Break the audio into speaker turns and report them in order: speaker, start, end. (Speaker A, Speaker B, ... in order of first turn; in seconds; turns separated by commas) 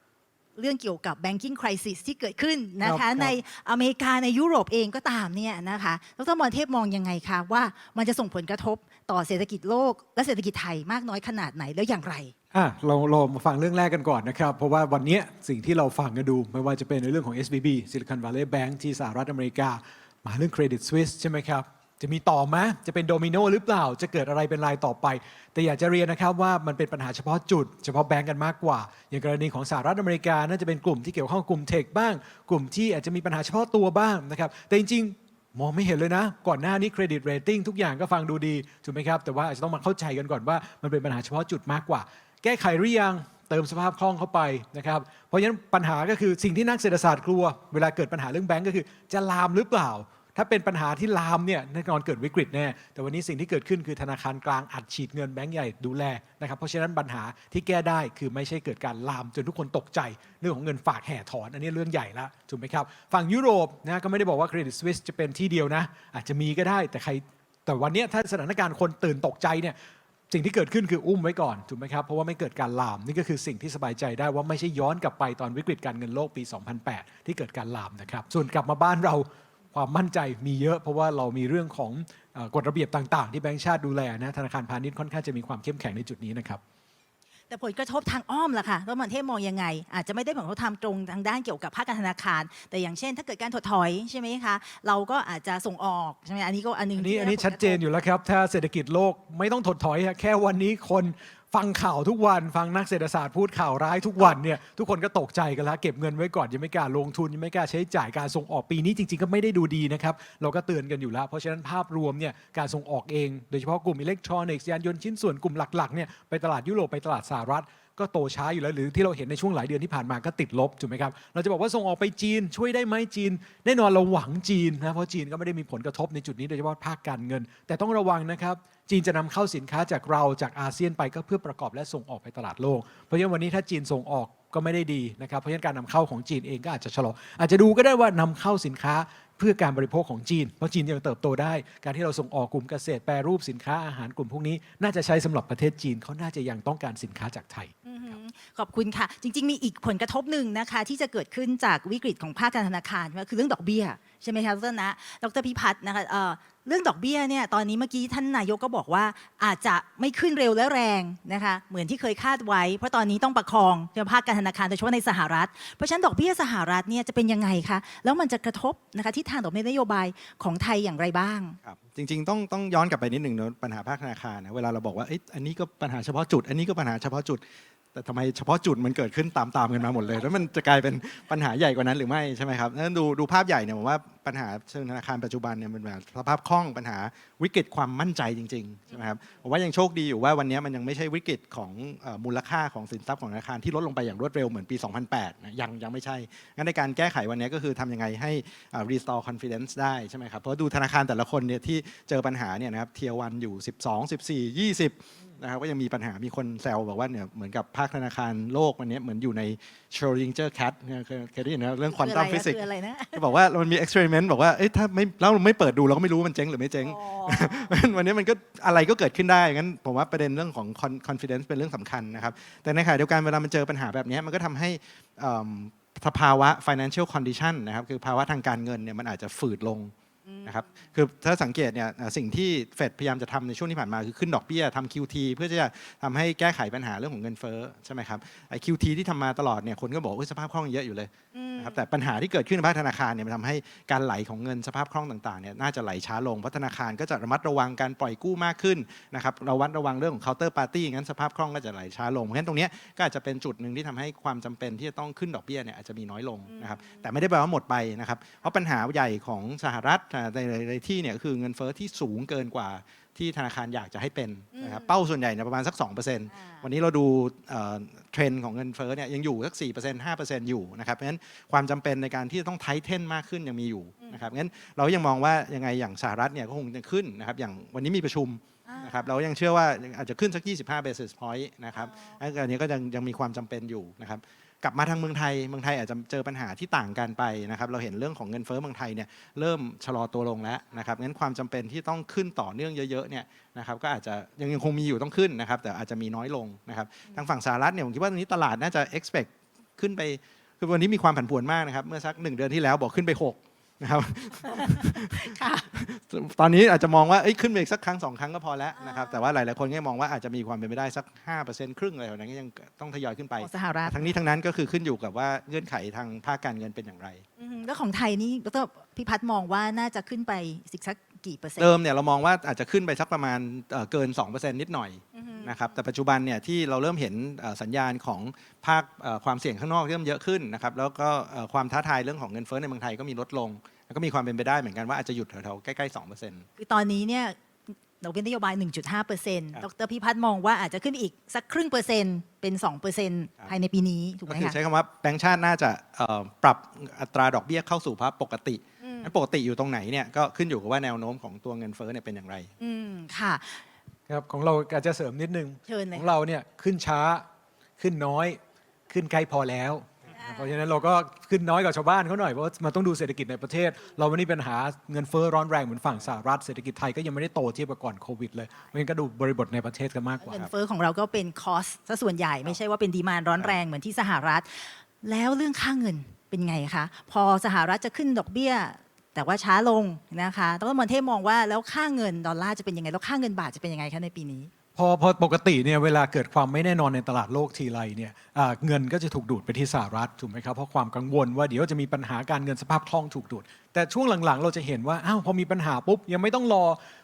Speaker A: 0.6-12.3, Speaker B: 2.8-3.3, Speaker B: 12.5-69.8, Speaker B: 70.3-86.6, Speaker A: 87.5-97.8, Speaker B: 97.0-147.7, Speaker A: 147.8-171.6, Speaker C: 171.6-177.4, Speaker C: 177.9-212.6, Speaker A: 211.9-213.2, Speaker C: 213.1-229.9, Speaker A: 216.8-217.7, Speaker A: 230.2-230.7, Speaker C: 230.4-317.2, Speaker A: 241.3-241.8, Speaker A: 256.5-257.1, Speaker A: 264.5-264.9, Speaker A: 266.3-266.6, Speaker A: 274.0-274.3, Speaker A: 278.6-279.1, Speaker A: 281.7-282.2, Speaker A: 304.5-305.7, Speaker A: 308.8-309.2, Speaker A: 313.4-314.0, Speaker A: 317.4-321.7, Speaker C: 321.6-336.4, Speaker A: 325.1-325.8, Speaker A: 336.6-337.4, Speaker A: 338.0-344.6, Speaker C: 344.3-352.5, Speaker A: 348.8-349.1, Speaker A: 352.6-353.6, Speaker B: 354.1-357.2, Speaker A: 355.7-356.1, Speaker B: 357.8-370.4, Speaker A: 360.1-360.5, Speaker A: 370.2-384.5, Speaker B: 384.8-396.8